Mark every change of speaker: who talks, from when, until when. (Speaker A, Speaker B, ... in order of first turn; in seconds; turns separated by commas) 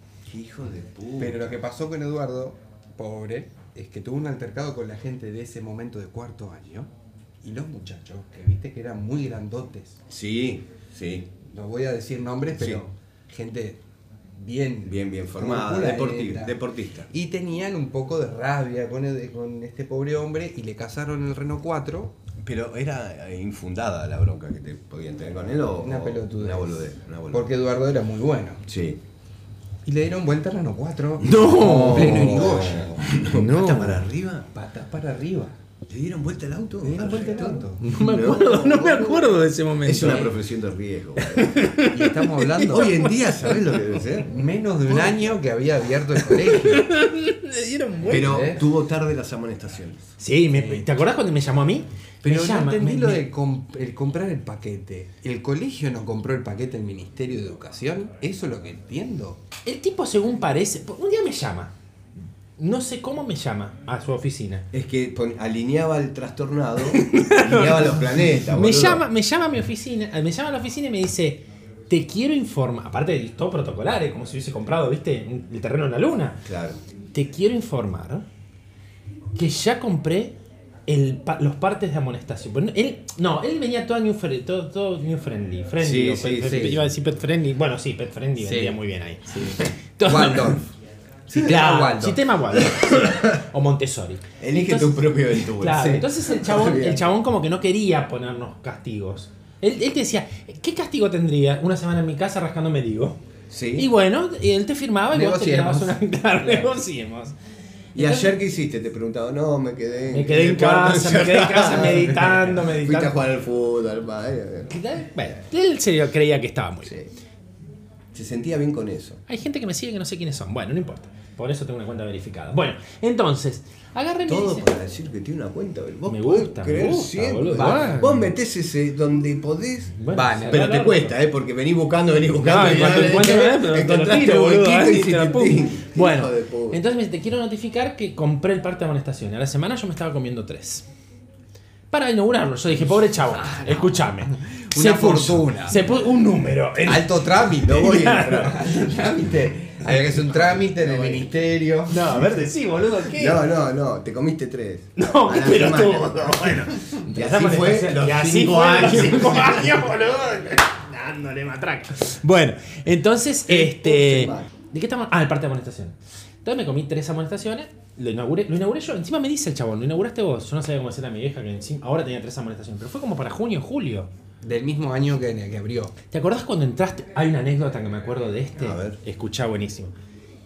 Speaker A: 0.2-1.4, Speaker B: 1.2-6.9, Speaker B: 7.4-10.0, Speaker A: 10.1-11.3, Speaker B: 11.5-13.8, Speaker A: 12.5-12.8, Speaker B: 14.4-16.5, Speaker A: 14.8-17.1, Speaker B: 17.1-22.1, Speaker A: 22.4-27.5, Speaker B: 25.8-28.6, Speaker A: 28.6-29.0, Speaker B: 29.9-33.0, Speaker C: 31.2-34.0, Speaker A: 31.3-34.5, Speaker B: 34.5-35.5, Speaker A: 35.9-41.6, Speaker B: 36.8-37.8, Speaker C: 37.8-40.3, Speaker C: 41.2-43.5, Speaker B: 41.9-43.0, Speaker A: 42.6-44.3, Speaker B: 44.3-46.9, Speaker A: 44.9-45.2, Speaker C: 46.2-48.5, Speaker A: 48.0-50.1, Speaker B: 48.1-48.6, Speaker C: 50.2-53.2, Speaker B: 50.5-50.9, Speaker B: 52.2-59.4, Speaker C: 59.6-61.7, Speaker C: 62.6-64.7, Speaker A: 64.7-69.0, Speaker C: 66.9-76.4, Speaker A: 76.4-76.8, Speaker C: 77.1-78.2, Speaker C: 79.3-90.6, Speaker A: 85.8-86.8, Speaker B: 86.4-86.8, Speaker B: 88.4-88.8, Speaker B: 89.3-90.6, Speaker B: 91.3-92.2, Speaker C: 91.3-103.2, Speaker A: 92.7-93.4, Speaker A: 94.4-97.1, Speaker B: 95.7-96.0, Speaker A: 103.5-103.9, Speaker C: 103.8-107.3, Speaker B: 105.1-106.7, Speaker C: 107.9-108.3, Speaker A: 107.9-114.8, Speaker C: 110.1-113.2, Speaker C: 114.7-116.9, Speaker A: 116.8-117.1, Speaker A: 118.1-119.2, Speaker C: 119.3-124.7, Speaker A: 124.2-136.8, Speaker C: 126.1-128.3, Speaker B: 127.5-128.1, Speaker C: 130.0-131.2, Speaker B: 130.1-130.6, Speaker C: 132.4-140.8, Speaker C: 141.9-148.8, Speaker B: 143.4-145.8, Speaker B: 146.8-152.2, Speaker A: 147.6-148.6, Speaker A: 150.1-151.2, Speaker C: 151.9-153.4, Speaker A: 153.1-159.9, Speaker C: 155.0-174.1, Speaker A: 163.4-164.5, Speaker B: 174.4-175.9, Speaker C: 176.1-179.9, Speaker A: 178.6-179.0